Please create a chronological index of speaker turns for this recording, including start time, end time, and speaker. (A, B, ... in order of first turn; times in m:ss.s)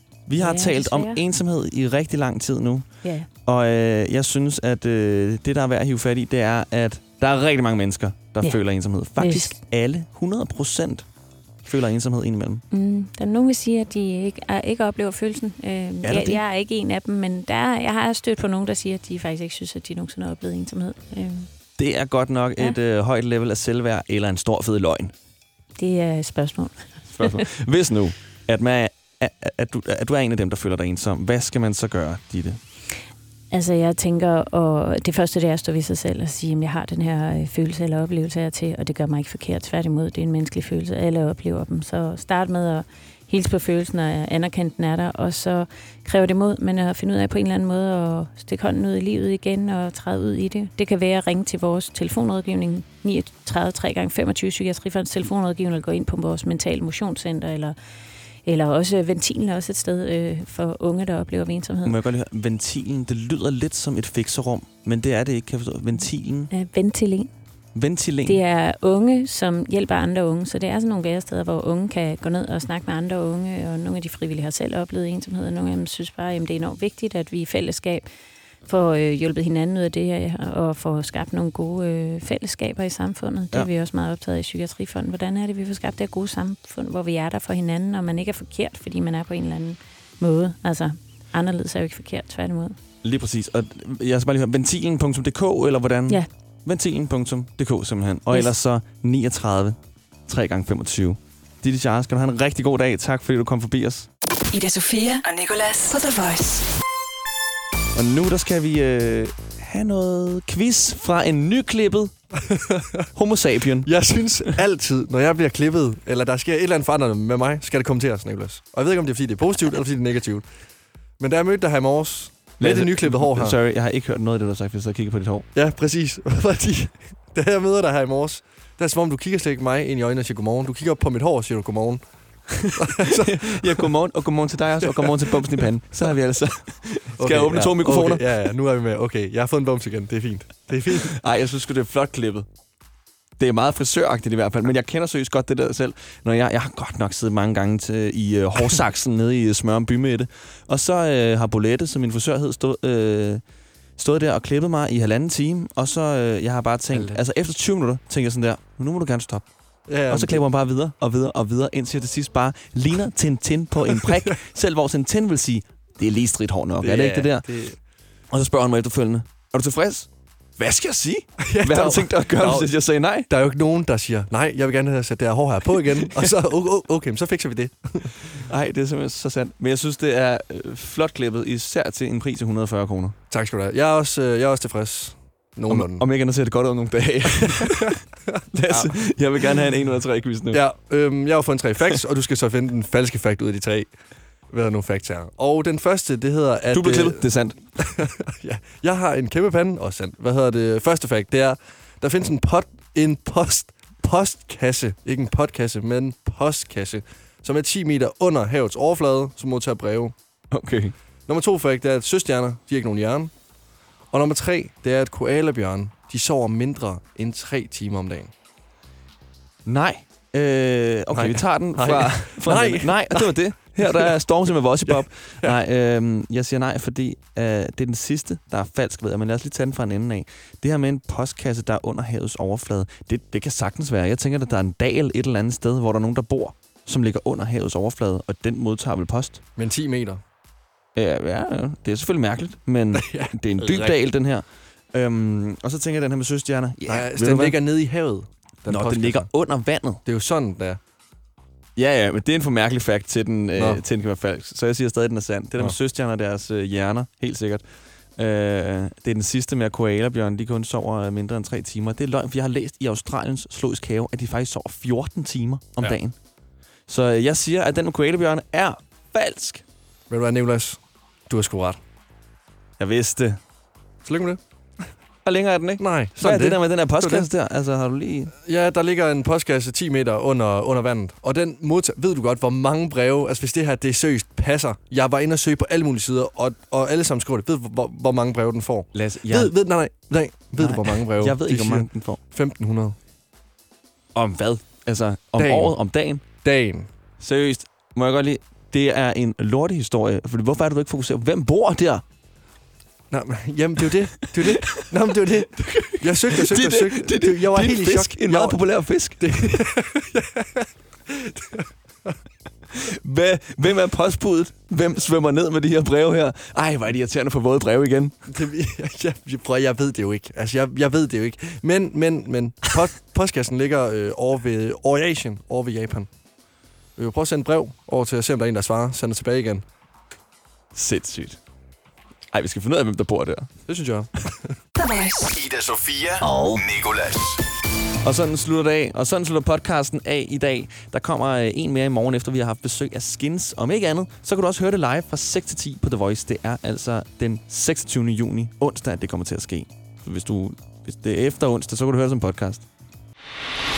0:00.2-0:11.0 A
0:00.4-0:01.2 B
0:09.2-0:09.6 B
0:11.6-0:12.6 A
0:12.7-0:21.5 B
0:16.0-0:16.4 A
0:21.8-0:25.1 A
0:25.8-0:27.4 B
0:27.1-0:32.6 A
0:33.5-0:57.8 B
0:58.4-1:01.9 B
1:01.8-1:06.5 A
1:06.5-1:07.3 B
1:07.7-1:08.4 A
1:08.2-1:18.1 B
1:18.6-1:32.8 B
1:33.0-1:44.1 A
1:44.5-1:46.7 C
1:47.9-1:52.4 A
1:52.5-1:52.8 D
1:53.1-1:54.2 A
1:53.8-2:03.6 D
2:02.6-2:05.5 A
2:05.5-2:13.9 D
2:13.3-2:18.3 A
2:14.9-2:15.3 D
2:17.2-2:21.2 D
2:20.9-2:22.5 A
2:23.4-2:33.4 A
2:34.0-2:47.6 A
2:36.9-2:37.2 D
2:39.9-2:40.5 D
2:46.8-2:47.8 D
2:48.3-2:53.3 A
2:51.5-2:58.4 D
2:58.4-3:03.2 A
3:03.3-3:06.0 D
3:05.7-3:08.0 A
3:08.5-3:10.6 A
3:08.7-3:08.9 D
3:10.5-3:30.1 D
3:16.7-3:17.8 A
3:30.5-3:30.9 A
3:31.3-3:33.4 D
3:34.1-3:38.3 D
3:39.6-3:59.4 A
3:41.1-3:44.1 D
3:44.8-3:45.6 D
3:59.6-4:00.2 D
4:00.9-4:07.6 A
4:02.9-4:03.9 D
4:06.9-4:09.3 D
4:08.7-4:10.0 A
4:10.0-4:10.8 D
4:11.8-4:26.2 A
4:13.6-4:13.8 D
4:26.9-4:29.6 A
4:30.1-4:31.8 D
4:32.8-4:33.4 A
4:34.0-4:34.9 D
4:35.2-4:38.3 A
4:35.8-4:37.3 D
4:38.4-4:52.9 D
4:48.9-4:49.5 A
4:50.6-4:52.2 A
4:54.1-4:56.2 A
4:55.4-4:56.9 D
4:57.2-5:02.0 A
5:03.1-5:12.2 D
5:05.6-5:09.6 A
5:12.9-5:18.2 A
5:18.3-5:26.1 D
5:27.0-5:29.6 D
5:30.7-5:31.4 A
5:32.3-5:33.6 A
5:33.7-5:34.6 D
5:34.8-5:35.3 C
5:35.3-5:37.4 E
5:36.2-5:36.6 A
5:38.0-5:52.6 A